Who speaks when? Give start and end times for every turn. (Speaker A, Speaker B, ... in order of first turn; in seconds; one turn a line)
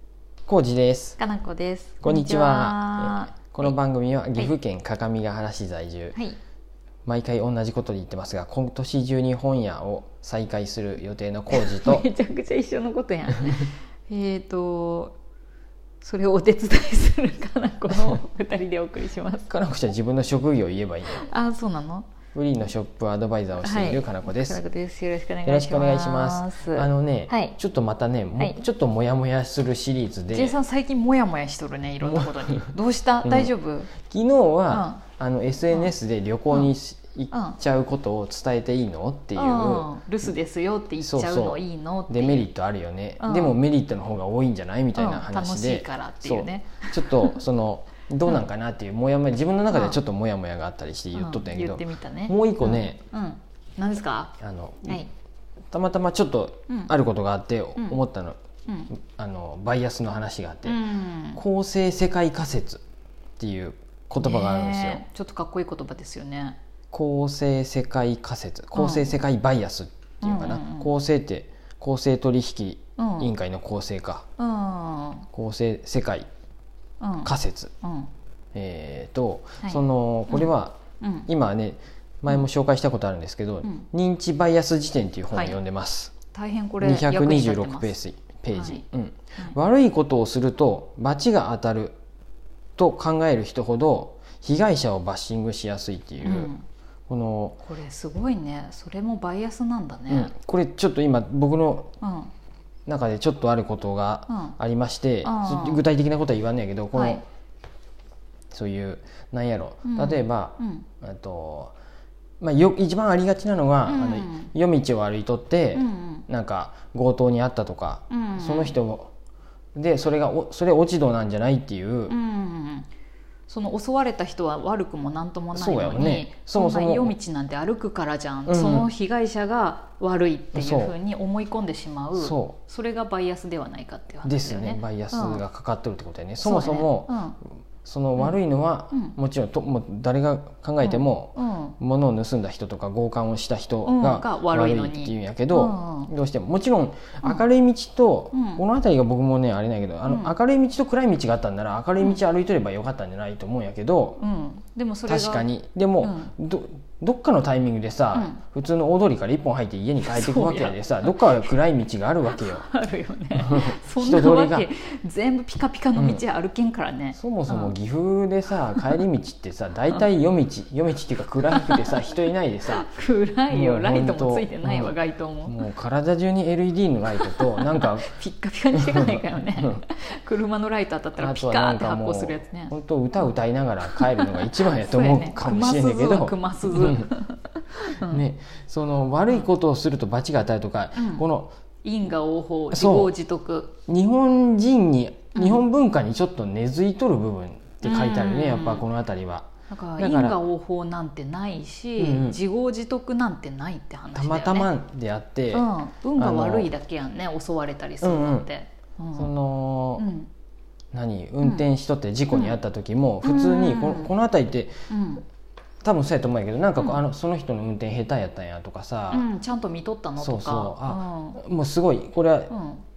Speaker A: 0.5-1.2
Speaker B: 1.2-3.8
Speaker A: 2.0-6.2
Speaker A: 7.0-12.1
Speaker B: 11.5-15.2
Speaker B: 16.0-19.5
Speaker A: 19.5-21.3
Speaker B: 21.1-22.1
Speaker A: 22.3-24.6
Speaker B: 23.6-27.6
Speaker A: 25.4-30.5
Speaker B: 28.4-28.6
Speaker B: 30.3-33.9
Speaker A: 32.0-32.7
Speaker A: 33.2-39.9
Speaker B: 34.7-35.0
Speaker B: 37.3-37.6
Speaker B: 39.3-42.5
Speaker A: 41.0-53.0
Speaker B: 43.2-43.6
Speaker B: 44.9-47.4
Speaker B: 49.7-50.0
Speaker B: 51.1-55.1
Speaker A: 54.4-55.0
Speaker A: 55.7-58.4
Speaker A: 58.9-60.8
Speaker B: 60.6-61.4
Speaker A: 61.3-62.8
Speaker A: 63.4-65.0
Speaker B: 64.2-66.6
Speaker A: 66.9-74.2
Speaker B: 68.7-69.2
Speaker B: 70.2-70.9
Speaker B: 73.0-73.3
Speaker B: 74.4-75.3
Speaker A: 75.3-76.3
Speaker B: 77.0-78.1
Speaker A: 77.2-77.7
Speaker A: 78.5-86.1
Speaker B: 79.6-81.3
Speaker B: 85.3-85.6
Speaker B: 86.3-88.0
Speaker A: 86.8-92.0
Speaker B: 88.5-88.8
Speaker A: 92.8-96.5
Speaker B: 96.2-96.6
Speaker A: 97.1-97.6
Speaker B: 97.6-100.3
Speaker A: 100.1-101.9
Speaker B: 102.0-102.3
Speaker A: 102.8-107.2
Speaker B: 104.3-104.5
Speaker B: 105.2-105.8
Speaker B: 106.9-107.2
Speaker A: 108.5-111.7
Speaker B: 109.8-110.9
Speaker A: 112.4-119.1
Speaker B: 113.9-114.5
Speaker B: 115.7-116.2
Speaker B: 118.1-118.8
Speaker A: 119.7-122.1
Speaker B: 122.1-122.9
Speaker B: 123.5-135.4
Speaker A: 125.5-127.1
Speaker A: 128.5-128.9
Speaker A: 130.5-130.9
Speaker A: 132.1-132.6
Speaker A: 134.2-137.2
Speaker B: 136.4-137.4
Speaker A: 137.8-154.2
Speaker B: 138.9-139.2
Speaker B: 140.8-141.8
Speaker B: 143.8-146.1
Speaker B: 148.3-148.6
Speaker B: 150.1-150.3
Speaker B: 154.2-155.4
Speaker A: 155.1-162.7
Speaker B: 156.0-156.3
Speaker B: 158.1-158.4
Speaker B: 160.1-161.5
Speaker B: 162.3-167.7
Speaker A: 163.3-164.7
Speaker A: 165.9-166.2
Speaker A: 167.1-172.9
Speaker B: 171.5-171.9
Speaker B: 172.8-175.6
Speaker A: 173.5-174.9
Speaker A: 175.5-178.2
Speaker B: 177.1-183.3
Speaker A: 178.7-179.8
Speaker A: 181.2-187.1
Speaker B: 183.8-188.2
Speaker A: 188.0-191.5
Speaker B: 190.9-191.2
Speaker B: 191.8-193.8
Speaker A: 192.7-193.1
Speaker A: 193.9-200.4
Speaker B: 195.3-195.6
Speaker B: 197.8-198.9
Speaker B: 199.7-204.7
Speaker A: 202.0-202.4
Speaker A: 204.1-206.7
Speaker B: 205.5-209.3
Speaker A: 208.0-208.4
Speaker A: 209.2-210.0
Speaker B: 210.0-210.3
Speaker A: 210.9-214.8
Speaker B: 211.4-211.7
Speaker B: 212.3-212.6
Speaker B: 213.2-214.1
Speaker B: 214.9-215.2
Speaker A: 215.8-219.2
Speaker B: 216.8-217.0
Speaker B: 219.1-221.4
Speaker A: 220.2-222.5
Speaker B: 222.5-222.8